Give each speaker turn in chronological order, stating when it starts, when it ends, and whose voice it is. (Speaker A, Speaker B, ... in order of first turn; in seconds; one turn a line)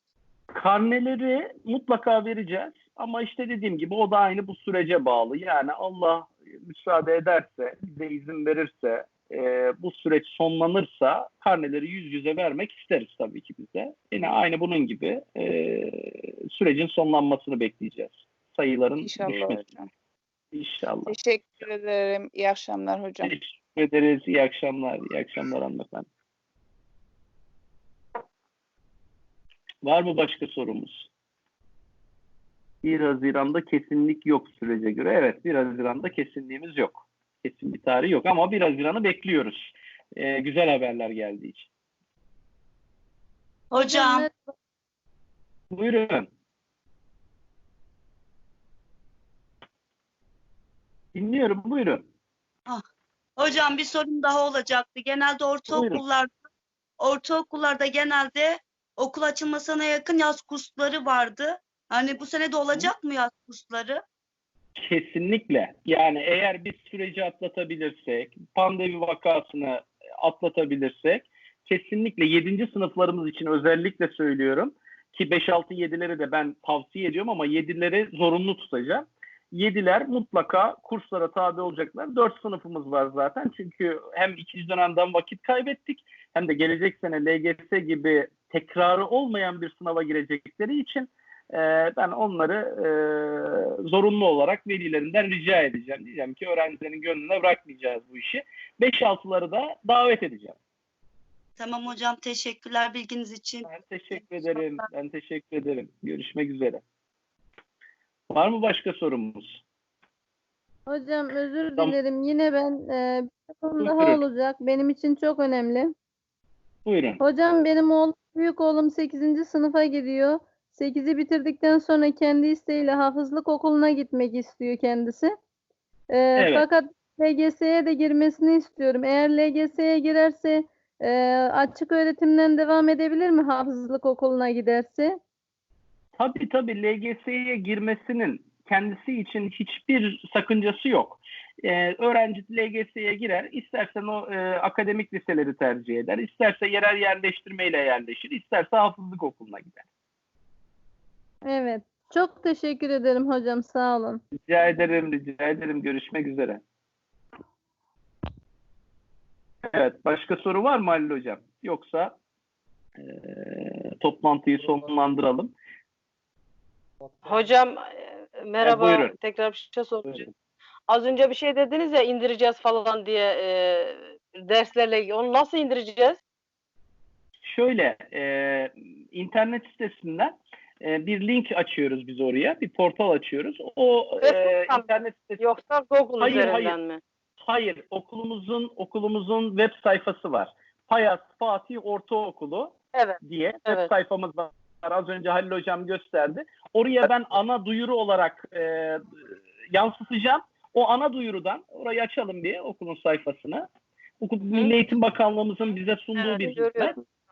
Speaker A: 0.5-19.6
Speaker B: 19.0-19.9
Speaker A: 20.5-21.1
Speaker B: 21.1-23.3
Speaker A: 23.2-26.1
Speaker A: 29.8-31.1
Speaker A: 32.8-41.7
Speaker C: 43.7-44.3
Speaker D: 43.7-44.5
Speaker A: 45.7-46.3
Speaker A: 51.1-52.0
Speaker C: 53.4-56.3
Speaker A: 55.7-56.0
Speaker C: 57.0-64.0
Speaker A: 64.8-100.6
Speaker C: 101.6-103.7
Speaker A: 103.6-106.8
Speaker A: 108.3-109.6
Speaker D: 110.9-115.9
Speaker A: 113.8-114.2
Speaker A: 116.8-117.2
Speaker D: 117.2-125.3
Speaker D: 126.1-135.2
Speaker A: 126.4-126.7
Speaker A: 136.2-149.8
Speaker D: 151.5-154.2
Speaker A: 154.4-156.6
Speaker A: 159.6-162.2
Speaker A: 163.0-165.5
Speaker E: 167.2-170.3
Speaker A: 168.6-169.1
Speaker E: 170.9-176.2
Speaker A: 177.4-185.4
Speaker E: 184.2-184.9
Speaker E: 185.4-187.0
Speaker A: 186.2-186.8
Speaker A: 187.4-199.1
Speaker E: 192.9-193.9
Speaker A: 199.7-203.7
Speaker A: 204.2-206.9
Speaker E: 206.2-207.0